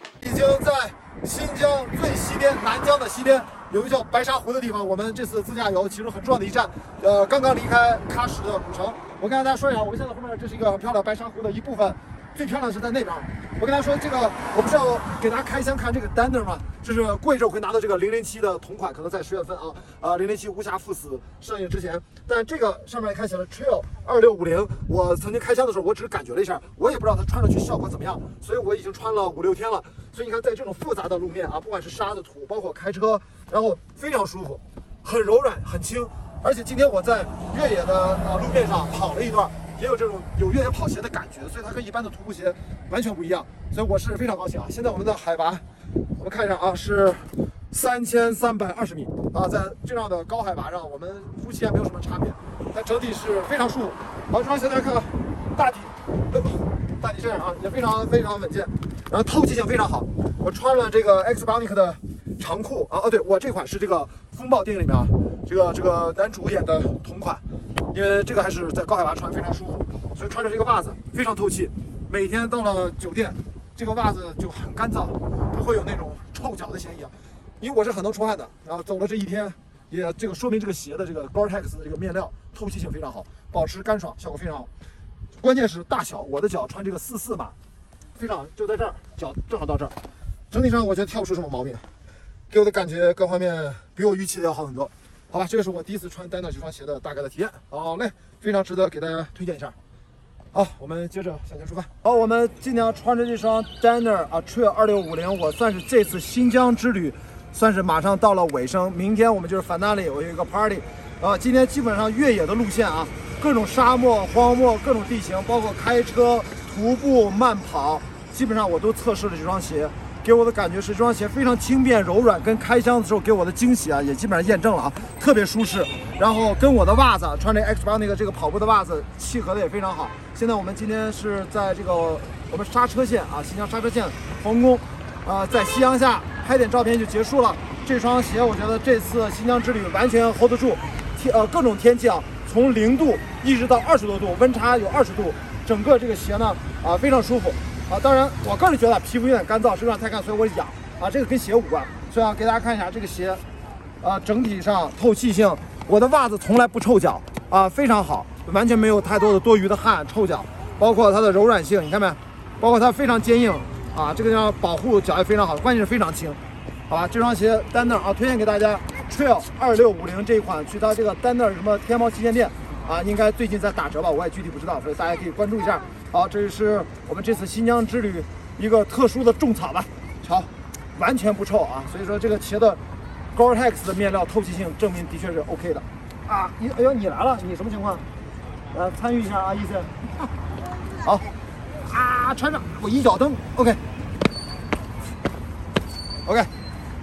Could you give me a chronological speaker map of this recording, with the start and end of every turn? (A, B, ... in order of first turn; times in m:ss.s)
0:00.2-0:45.6 A
0:46.2-1:24.7 A
1:25.4-1:27.5 A
1:28.2-1:29.9 A
1:30.5-1:31.9 A
1:32.5-1:39.8 A
1:40.5-2:33.4 A
2:34.0-3:02.8 A
3:03.3-3:08.0 A
3:08.7-3:09.9 A
3:11.0-3:13.8 A
3:16.2-3:16.5 A